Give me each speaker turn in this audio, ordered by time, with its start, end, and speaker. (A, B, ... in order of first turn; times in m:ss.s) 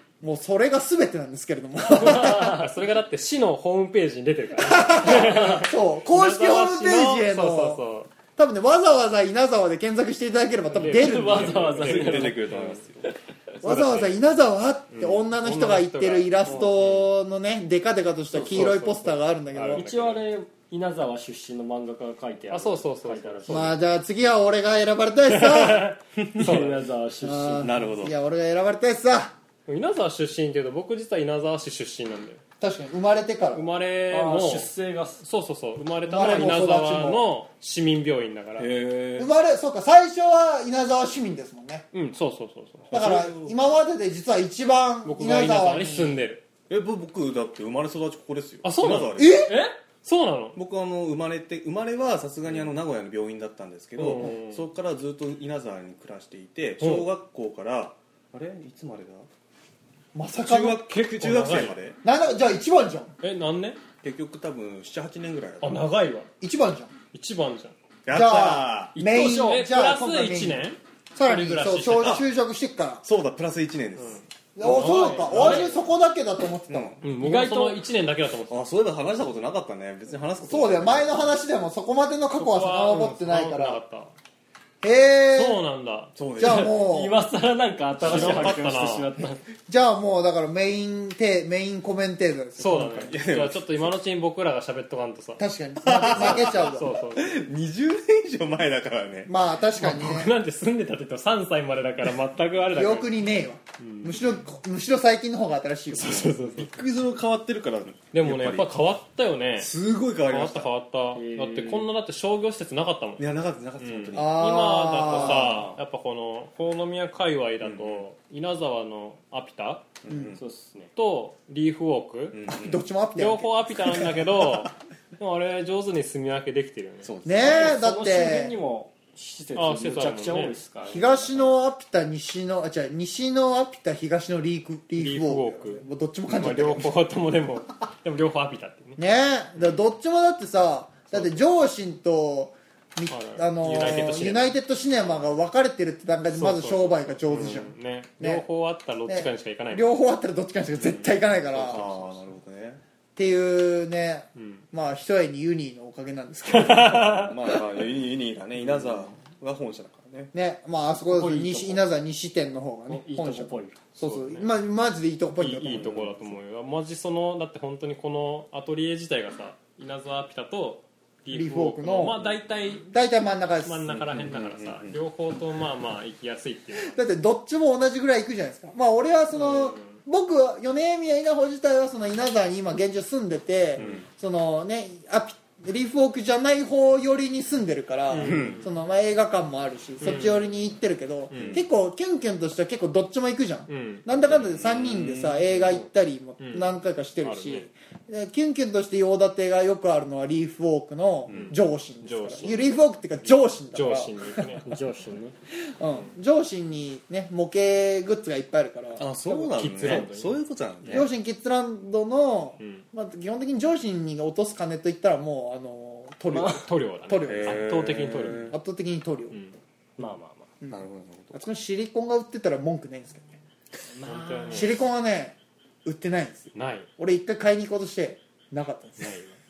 0:00.2-0:02.6 A
0:01.9-0:08.1 B
0:02.3-0:02.6 C
0:04.6-0:07.8 A
0:08.4-0:11.7 A
0:10.7-0:12.8 B
0:10.9-0:12.7 C
0:11.7-0:13.2 D
0:13.6-0:14.2 B
0:13.6-0:19.9 A
0:14.9-0:17.0 B
0:18.3-0:20.2 B
0:19.7-0:23.8 C
0:22.5-0:23.8 B
0:23.5-0:25.9 A
0:26.2-0:26.6 D
0:26.4-0:27.8 C
0:26.4-0:26.8 B
0:27.2-0:29.4 A
0:27.6-0:28.2 D
0:29.7-0:32.4 B
0:32.6-0:33.6 A
0:33.5-0:38.7 B
0:34.1-0:35.2 C
0:36.1-0:37.2 A
0:38.6-0:39.3 D
0:39.2-0:41.9 A
0:41.9-0:43.0 B
0:42.9-0:43.6 D
0:42.9-0:46.2 A
0:45.0-0:46.4 B
0:46.7-0:49.5 D
0:48.6-0:50.6 B
0:49.2-0:49.6 A
0:50.6-0:59.3 D
0:52.5-0:52.7 B
0:54.0-0:54.7 B
0:56.8-0:57.1 B
1:00.1-1:00.8 A
1:00.4-1:02.0 D
1:00.8-1:01.8 B
1:02.0-1:03.1 A
1:03.2-1:03.8 B
1:04.0-1:05.9 D
1:05.6-1:06.3 B
1:06.4-1:06.9 A
1:07.1-1:07.8 B
1:08.1-1:08.9 D
1:08.1-1:10.6 A
1:09.0-1:09.6 C
1:09.2-1:12.2 B
1:11.2-1:13.0 A
1:11.7-1:12.2 D
1:13.0-1:15.6 D
1:14.0-1:15.8 B
1:14.6-1:17.0 A
1:15.3-1:15.7 C
1:16.7-1:17.0 D
1:17.0-1:17.8 C
1:17.0-1:18.6 B
1:18.5-1:21.3 D
1:20.4-1:23.8 A
1:22.4-1:24.1 B
1:24.8-1:25.6 A
1:25.4-1:26.2 B
1:26.2-1:26.9 D
1:26.4-1:27.2 A
1:26.4-1:29.4 C
1:28.0-1:29.1 B
1:28.0-1:28.7 D
1:29.7-1:33.1 A
1:32.6-1:37.4 B
1:32.9-1:33.9 D
1:35.4-1:36.9 A
1:35.8-1:39.3 D
1:39.3-1:40.3 A
1:39.8-1:43.1 B
1:42.7-1:46.4 A
1:43.8-1:44.2 B
1:45.9-1:46.7 B
1:46.0-1:48.7 D
1:48.1-1:49.7 B
1:49.6-1:50.7 D
1:50.2-1:59.9 B
1:51.1-1:51.9 C
1:53.2-1:54.4 D
1:54.1-1:55.7 A
1:55.3-1:55.8 C
1:57.6-1:58.0 D
2:00.0-2:00.4 D
2:00.1-2:00.4 A
2:00.4-2:00.9 C
2:01.0-2:02.4 B
2:02.3-2:02.8 D
2:02.5-2:04.0 A
2:03.2-2:07.1 B
2:07.0-2:07.8 D
2:07.2-2:08.5 A
2:07.4-2:11.5 C
2:09.6-2:10.6 B
2:10.9-2:16.9 A
2:15.0-2:19.0 B
2:19.0-2:28.4 A
2:23.1-2:24.5 B
2:26.3-2:29.9 B
2:29.1-2:31.9 A
2:30.8-2:31.2 B
2:31.5-2:32.8 D
2:33.2-2:37.2 A
2:34.4-2:34.7 B
2:36.5-2:37.4 B
2:37.1-2:40.3 D
2:40.3-2:46.1 A
2:41.1-2:41.9 C
2:42.9-2:43.8 C
2:44.0-2:44.5 B
2:45.4-2:52.9 B
2:45.8-2:46.2 D
2:51.3-2:52.2 A
2:52.9-2:53.9 A
2:53.6-2:57.0 B
2:53.9-2:55.0 D
2:56.8-3:24.6 A
2:59.3-3:00.0 B
3:03.8-3:04.0 B
3:03.8-3:04.1 D
3:08.1-3:08.7 B
3:08.2-3:08.6 D
3:10.0-3:10.4 B
3:11.3-3:11.6 B
3:11.3-3:11.6 D
3:13.7-3:14.4 B
3:14.3-3:15.6 D
3:16.4-3:17.7 B
3:21.3-3:21.6 D
3:21.3-3:22.8 B
3:23.7-3:24.7 B
3:24.6-3:25.4 C
3:25.6-3:29.2 A
3:29.0-3:31.1 D
3:29.5-3:31.0 B
3:30.9-3:37.7 A
3:32.6-3:32.9 B
3:36.3-3:36.6 C
3:36.3-3:38.6 B
3:37.3-3:38.6 D
3:38.3-3:39.4 A
3:39.3-3:39.6 B
3:40.0-3:40.5 C
3:40.6-3:43.4 A
3:40.7-3:41.4 D
3:43.9-3:44.7 C
3:44.0-3:44.8 B
3:44.5-3:49.2 A
3:46.5-3:46.9 B
3:49.0-3:49.3 B